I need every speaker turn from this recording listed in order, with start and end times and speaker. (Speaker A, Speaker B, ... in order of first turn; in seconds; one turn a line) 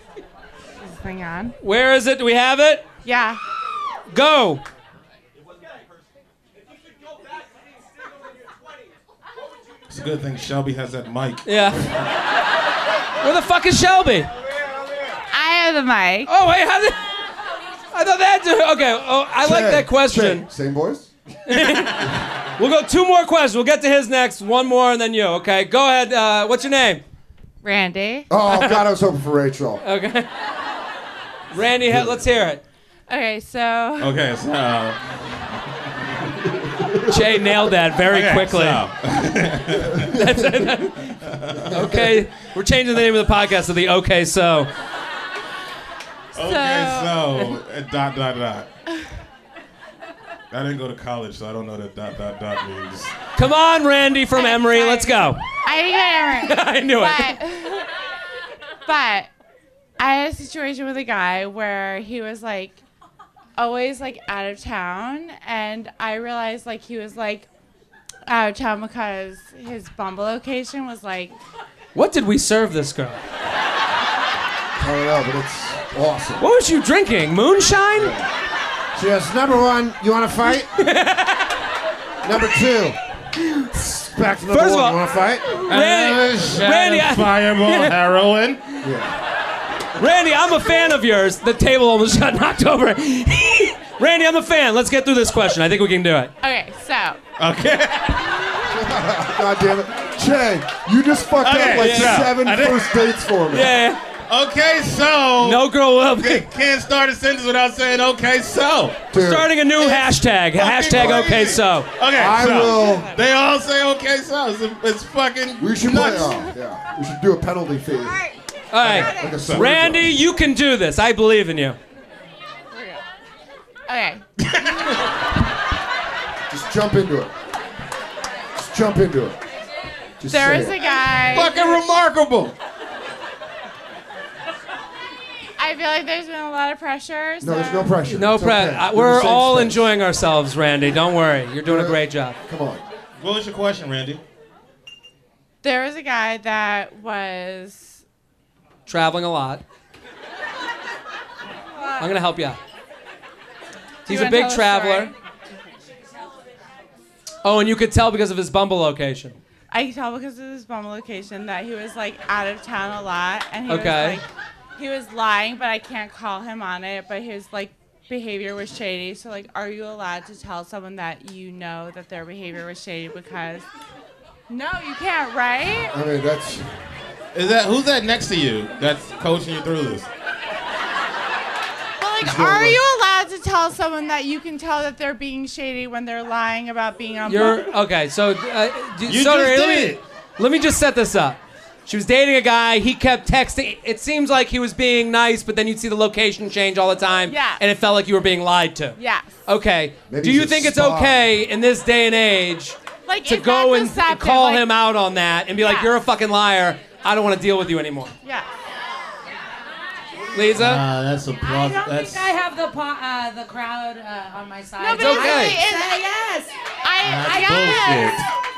Speaker A: 0.8-1.5
Speaker B: 1.6-2.9
Speaker A: 3.0-3.4
Speaker B: 4.1-4.6
Speaker C: 9.9-11.5
Speaker B: 11.4-11.9
Speaker B: 13.2-14.3
Speaker A: 15.3-16.3
Speaker B: 16.3-17.0
Speaker B: 17.9-20.4
Speaker D: 19.4-21.1
Speaker B: 21.5-27.0
Speaker A: 27.6-28.3
Speaker D: 28.3-29.8
Speaker B: 28.5-28.8
Speaker B: 29.8-30.3
Speaker B: 31.5-32.6
Speaker D: 31.9-32.2
Speaker A: 33.1-34.1
Speaker C: 34.0-36.1
Speaker D: 36.6-37.1
Speaker B: 37.1-38.9
Speaker C: 38.1-40.1
Speaker D: 40.0-40.3
Speaker B: 40.1-41.1
Speaker C: 41.2-42.0
Speaker D: 41.7-42.0
Speaker B: 41.7-44.7
Speaker C: 46.3-48.7
Speaker A: 46.4-47.4
Speaker C: 50.5-53.1
Speaker B: 53.4-55.5
Speaker A: 54.3-57.9
Speaker B: 56.4-57.4
Speaker A: 58.9-59.3
Speaker A: 60.0-62.8
Speaker A: 63.6-67.5
Speaker A: 68.2-71.3
Speaker B: 71.9-73.2
Speaker D: 74.8-76.4
Speaker B: 76.4-78.1
Speaker D: 77.9-78.3
Speaker D: 78.9-80.7
Speaker B: 80.8-81.5
Speaker D: 82.2-83.0
Speaker D: 83.7-85.6
Speaker B: 84.5-85.0
Speaker C: 85.6-88.6
Speaker B: 85.6-88.0
Speaker D: 88.8-89.2
Speaker B: 90.0-96.3
Speaker A: 96.4-97.2
Speaker C: 97.4-98.3
Speaker D: 98.7-103.8
Speaker C: 101.4-103.1
Speaker B: 101.8-102.3
Speaker B: 103.5-104.0
Speaker C: 104.2-109.0
Speaker B: 105.4-106.5
Speaker D: 109.1-110.1
Speaker B: 109.1-111.9
Speaker C: 110.5-116.5
Speaker D: 110.9-111.5
Speaker D: 112.1-113.1
Speaker A: 112.8-113.1
Speaker D: 115.6-118.3
Speaker B: 118.7-121.8
Speaker D: 118.8-120.2
Speaker C: 118.8-119.9
Speaker A: 122.7-123.0
Speaker A: 123.9-124.2
Speaker C: 124.4-125.0
Speaker D: 126.5-127.3
Speaker D: 128.5-129.4
Speaker D: 130.2-131.0
Speaker A: 130.3-131.8
Speaker C: 131.2-132.5
Speaker A: 135.6-138.0
Speaker D: 137.4-139.9
Speaker B: 138.1-142.4
Speaker D: 141.6-142.8
Speaker C: 143.2-144.2
Speaker A: 145.6-148.0
Speaker B: 148.8-149.6
Speaker A: 151.8-152.0
Speaker B: 152.0-152.6
Speaker B: 154.1-155.1
Speaker A: 154.1-155.1
Speaker B: 157.4-159.4
Speaker A: 159.7-173.7
Speaker B: 163.7-164.2
Speaker A: 174.5-175.9
Speaker D: 175.9-176.7
Speaker C: 177.3-180.1
Speaker A: 182.0-187.7
Speaker D: 182.2-182.8
Speaker B: 187.2-208.1
Speaker C: 189.1-190.0
Speaker A: 197.3-197.6
Speaker A: 199.0-199.4
Speaker D: 200.1-201.2
Speaker A: 203.1-204.6
Speaker A: 205.6-205.9
Speaker B: 210.3-210.8
Speaker C: 210.5-212.3
Speaker E: 211.4-216.5
Speaker A: 214.8-216.1
Speaker B: 215.0-215.6
Speaker A: 216.8-218.2
Speaker C: 217.0-218.2
Speaker E: 217.1-217.9